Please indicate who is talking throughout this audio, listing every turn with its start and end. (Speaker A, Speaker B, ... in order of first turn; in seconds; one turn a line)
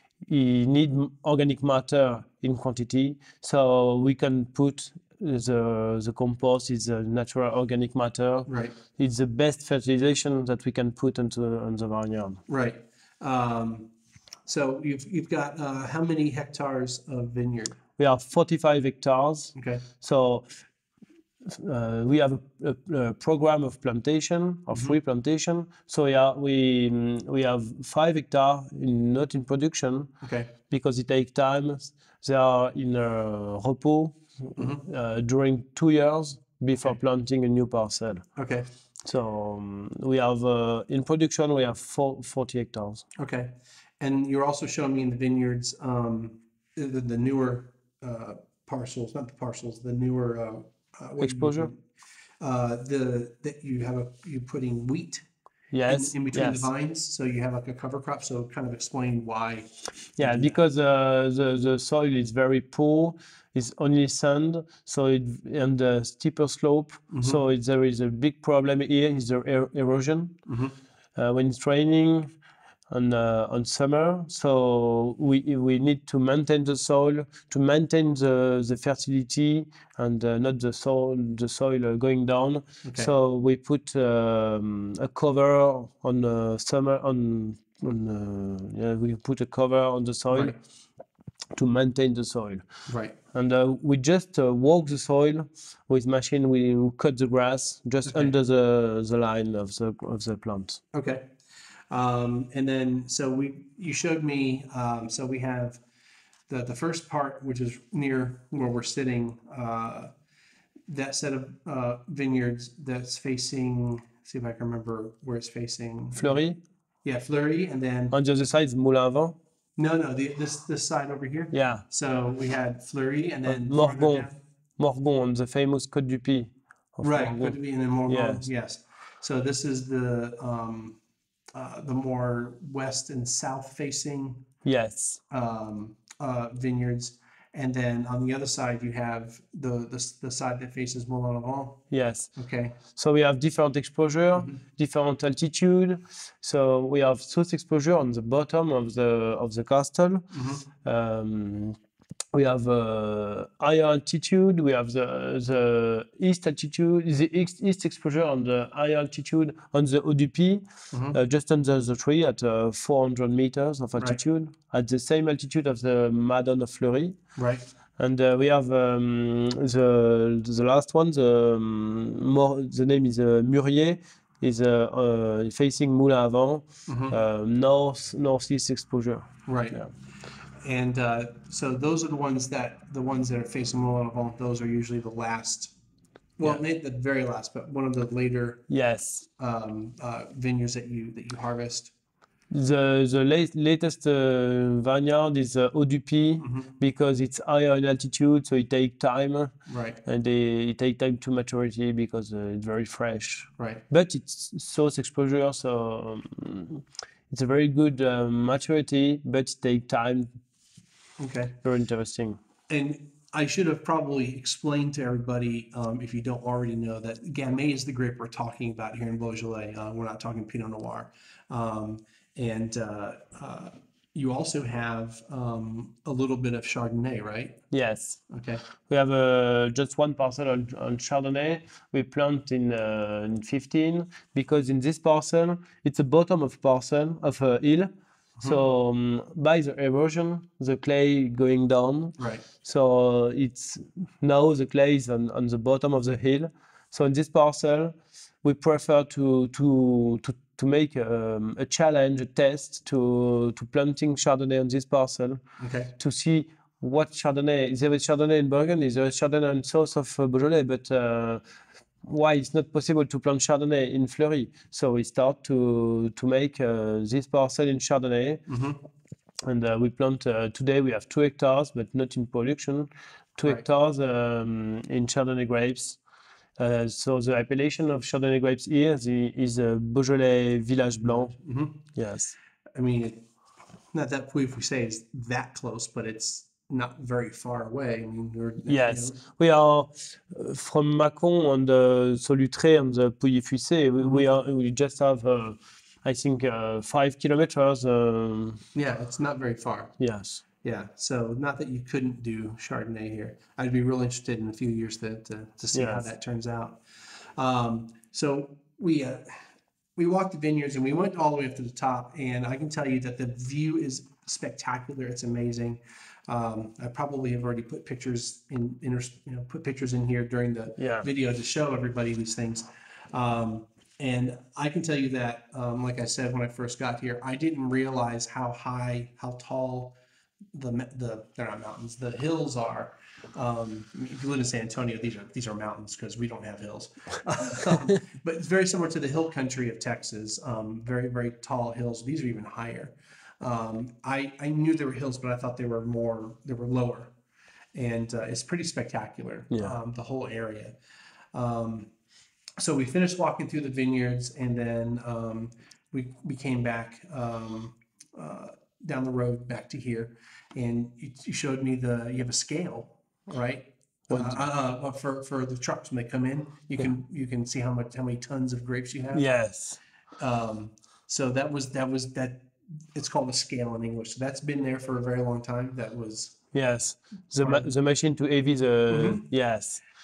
Speaker A: 0.2-12.4
Speaker B: 8.5-8.8
Speaker B: 12.5-13.9
Speaker B: 14.4-17.8
Speaker A: 18.0-20.5
Speaker B: 19.5-19.8
Speaker A: 21.4-30.1
Speaker B: 30.2-30.5
Speaker A: 30.7-38.3
Speaker B: 34.6-34.8
Speaker B: 38.4-38.7
Speaker A: 39.0-43.0
Speaker B: 43.1-51.8
Speaker A: 51.2-51.7
Speaker B: 52.4-55.2
Speaker A: 55.7-56.7
Speaker B: 55.9-60.6
Speaker A: 60.2-70.3
Speaker B: 67.1-67.4
Speaker B: 70.5-70.7
Speaker A: 71.2-72.3
Speaker A: 72.9-90.5
Speaker B: 82.8-83.1
Speaker A: 91.5-92.6
Speaker B: 92.9-93.2
Speaker A: 93.3-100.8
Speaker B: 98.0-98.3
Speaker B: 100.9-101.3
Speaker B: 101.9-105.8
Speaker B: 106.5-110.1
Speaker B: 110.9-116.4
Speaker A: 116.2-116.6
Speaker B: 117.0-118.1
Speaker A: 118.1-119.4
Speaker B: 119.8-124.4
Speaker A: 121.5-121.8
Speaker A: 123.4-128.5
Speaker B: 127.0-131.0
Speaker B: 131.6-134.4
Speaker A: 134.6-135.2
Speaker B: 135.3-141.8
Speaker A: 141.9-142.3
Speaker B: 142.3-142.8
Speaker A: 142.9-150.3
Speaker B: 150.3-150.6
Speaker A: 150.8-151.8
Speaker A: 152.3-167.2
Speaker B: 160.9-161.2
Speaker B: 167.3-167.7
Speaker A: 168.0-179.9
Speaker B: 176.9-177.2
Speaker B: 179.5-179.8
Speaker B: 180.6-185.7
Speaker B: 186.4-188.7
Speaker A: 188.7-189.2
Speaker B: 189.4-191.9
Speaker A: 192.5-199.5
Speaker B: 196.4-196.7
Speaker B: 199.7-200.0
Speaker A: 200.0-210.3
Speaker B: 211.2-211.6
Speaker A: 211.6-212.4
Speaker B: 212.7-227.6
Speaker A: 227.7-228.2
Speaker B: 228.3-228.6
Speaker A: 228.8-255.4
Speaker B: 242.2-242.4
Speaker B: 255.6-255.9
Speaker A: 256.0-261.4
Speaker A: 262.0-268.4
Speaker B: 268.5-268.8
Speaker A: 269.4-276.0
Speaker A: 276.6-281.3
Speaker B: 281.0-281.8
Speaker A: 281.9-282.4
Speaker B: 282.7-283.2
Speaker B: 283.9-289.2
Speaker A: 288.7-298.6
Speaker B: 294.0-294.3
Speaker B: 298.7-299.9
Speaker A: 300.0-300.4
Speaker B: 300.6-309.4
Speaker A: 305.7-306.1
Speaker B: 310.0-329.9
Speaker A: 320.8-321.1
Speaker B: 330.5-347.1
Speaker B: 347.7-350.7
Speaker A: 349.5-349.8
Speaker B: 351.3-351.9
Speaker B: 352.6-369.2
Speaker A: 364.1-364.4
Speaker A: 369.1-369.8
Speaker B: 370.2-376.4
Speaker A: 376.5-379.8
Speaker B: 377.4-377.7
Speaker B: 378.9-379.2